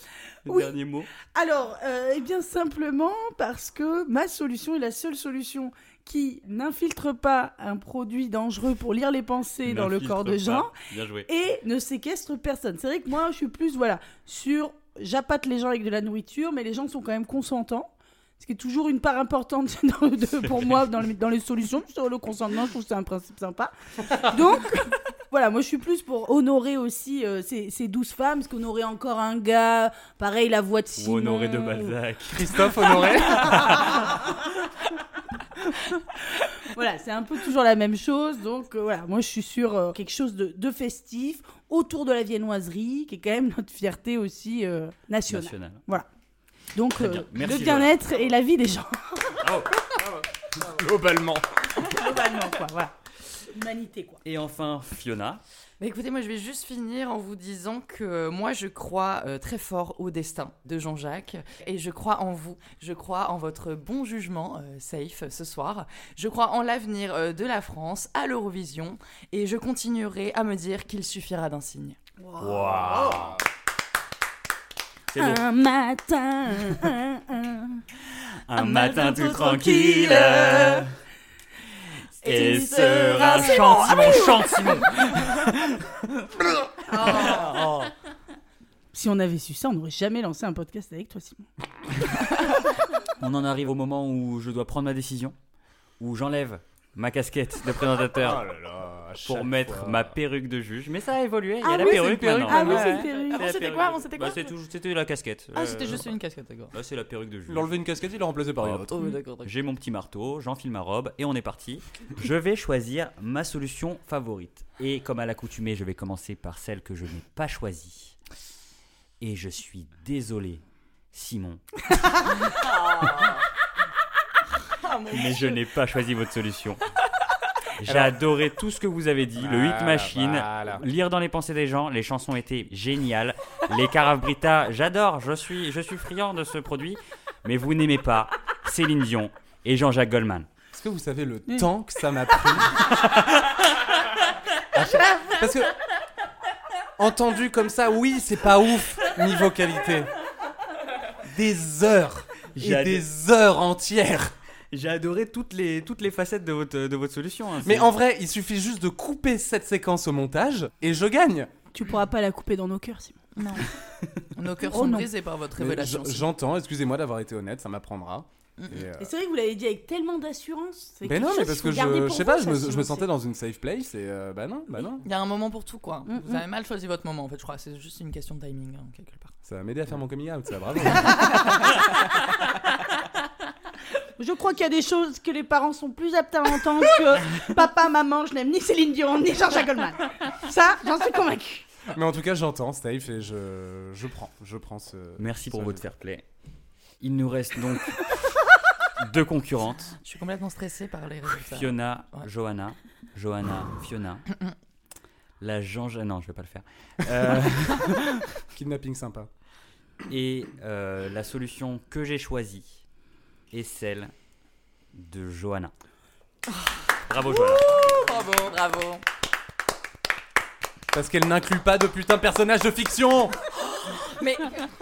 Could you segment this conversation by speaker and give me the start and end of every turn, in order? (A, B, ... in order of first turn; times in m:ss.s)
0:00.4-0:01.1 A
0:01.3-0:10.7 B
0:09.6-0:11.3 A
0:11.3-0:32.0 B
0:31.0-0:34.1 A
0:32.3-0:34.0 C
0:33.6-0:34.3 B
0:36.1-0:46.0 B
0:45.3-0:45.8 A
0:46.7-0:49.4 B
0:47.0-0:48.0 A
0:49.4-0:50.3 A
0:50.6-0:51.4 C
0:51.8-0:52.9 B
0:53.5-0:54.2 B
0:54.2-0:55.4 A
0:55.8-1:12.0 D
1:12.2-1:13.1 B
1:12.4-1:13.4 A
1:13.0-1:13.4 C
1:15.1-1:15.4 A
1:15.2-1:17.8 B
1:18.4-1:20.9 A
1:18.6-1:20.8 B
1:22.2-1:27.9 A
1:22.2-1:24.3 D
1:22.3-1:24.4 B
1:26.9-1:27.4 B
1:28.9-1:31.5 B
1:33.2-1:35.4 A
1:36.0-1:38.4 A
1:38.2-1:40.1 C
1:39.2-1:46.1 A
1:41.6-1:43.4 B
1:41.7-1:44.5 D
1:45.5-1:46.7 D
1:46.7-1:47.8 A
1:47.5-1:48.9 C
1:48.6-1:48.9 A
1:48.8-1:49.5 D
1:49.4-1:58.2 A
1:59.2-2:00.6 A
2:01.1-2:01.8 A
2:02.5-2:03.4 D
2:04.8-2:05.6 D
2:05.1-2:06.8 A
2:07.8-2:20.5 A
2:07.8-2:08.1 C
2:09.4-2:10.8 C
2:20.7-2:23.0 C
2:23.0-2:23.6 A
2:24.7-2:25.7 C
2:27.0-2:30.1 C
2:31.3-2:34.3 C
2:32.6-2:33.0 A
2:34.7-2:37.9 A
2:37.6-2:41.5 C
2:41.7-2:43.2 B
2:43.4-2:43.7 D
2:44.3-2:46.3 D
2:44.7-2:45.1 B
2:45.6-2:49.1 C
2:48.6-2:48.9 D
2:49.0-2:53.1 B
2:51.0-2:55.0 C
2:55.0-2:59.3 D
2:56.1-2:56.4 B
2:59.4-3:01.4 C
3:04.2-3:11.6 B
3:11.9-3:15.8 C
3:15.2-3:16.2 A
3:17.0-3:20.0 A
3:19.8-3:22.3 D
3:21.4-3:24.3 A
3:25.4-3:28.2 A
3:28.5-3:29.3 C
3:30.1-3:32.8 A
3:33.5-3:34.1 A
3:35.0-3:35.7 A
3:36.5-3:39.0 D
3:37.1-3:37.8 A
3:40.9-3:43.4 C
3:43.6-3:44.7 D